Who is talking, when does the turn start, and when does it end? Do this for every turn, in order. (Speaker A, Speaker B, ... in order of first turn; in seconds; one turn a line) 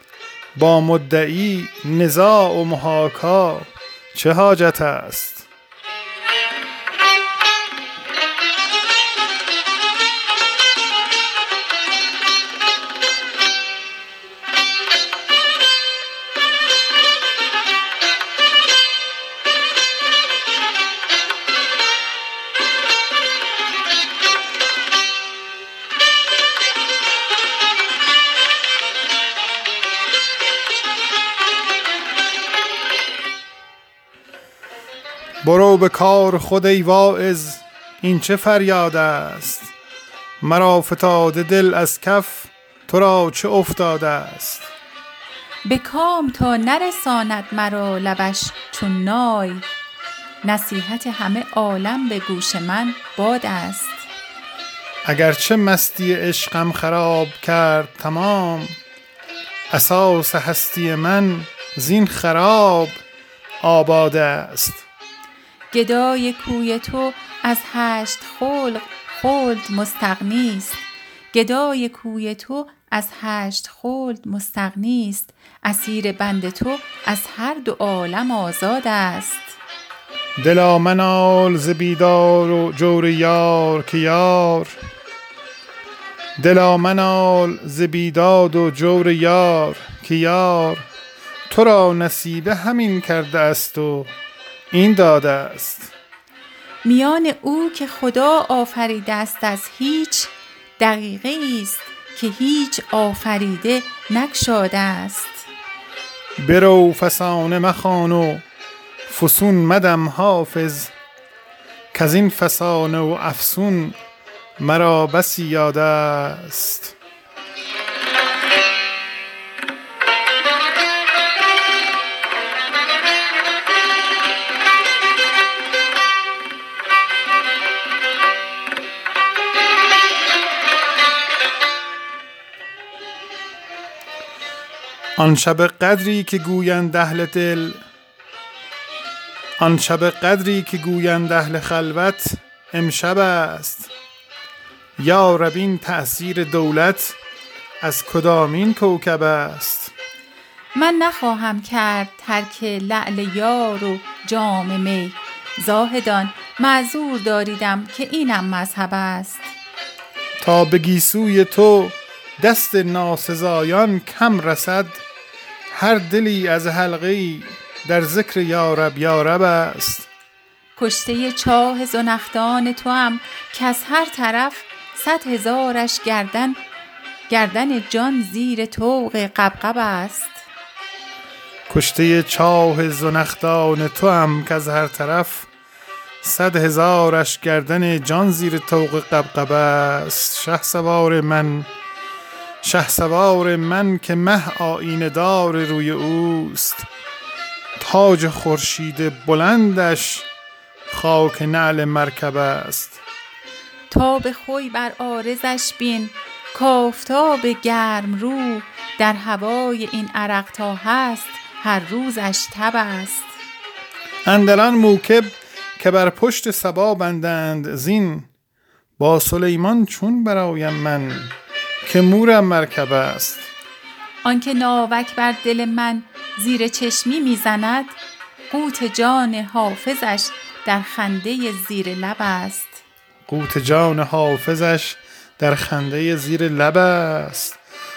Speaker A: 0.6-5.5
Speaker A: 35.4-39.7
Speaker A: 40.4-44.7
Speaker B: 45.7-49.7
Speaker B: 50.4-54.1
Speaker A: 55.0-58.8
Speaker A: 59.7-63.0
Speaker A: 63.6-64.9
Speaker B: 65.7-70.8
Speaker B: 71.3-79.6
Speaker A: 80.4-84.8
Speaker A: 86.4-90.9
Speaker A: 91.5-94.1
Speaker A: 94.7-95.9
Speaker B: 96.8-105.5
Speaker A: 106.4-108.5
Speaker A: 109.1-110.9
Speaker A: 111.9-114.0
Speaker A: 114.6-117.0
Speaker A: 135.2-137.8
Speaker A: 139.6-143.9
Speaker A: 145.0-147.2
Speaker A: 147.8-149.9
Speaker B: 150.8-159.5
Speaker A: 160.4-165.0
Speaker A: 165.7-170.1
Speaker B: 170.8-176.6
Speaker B: 177.3-180.4
Speaker A: 181.7-185.5
Speaker A: 186.2-191.7
Speaker A: 192.6-196.9
Speaker A: 197.8-200.3
Speaker A: 200.9-203.0
Speaker B: 203.9-213.4
Speaker A: 214.2-218.3
Speaker A: 219.0-223.5
Speaker B: 224.2-228.0
Speaker B: 228.5-232.8
Speaker A: 233.3-237.6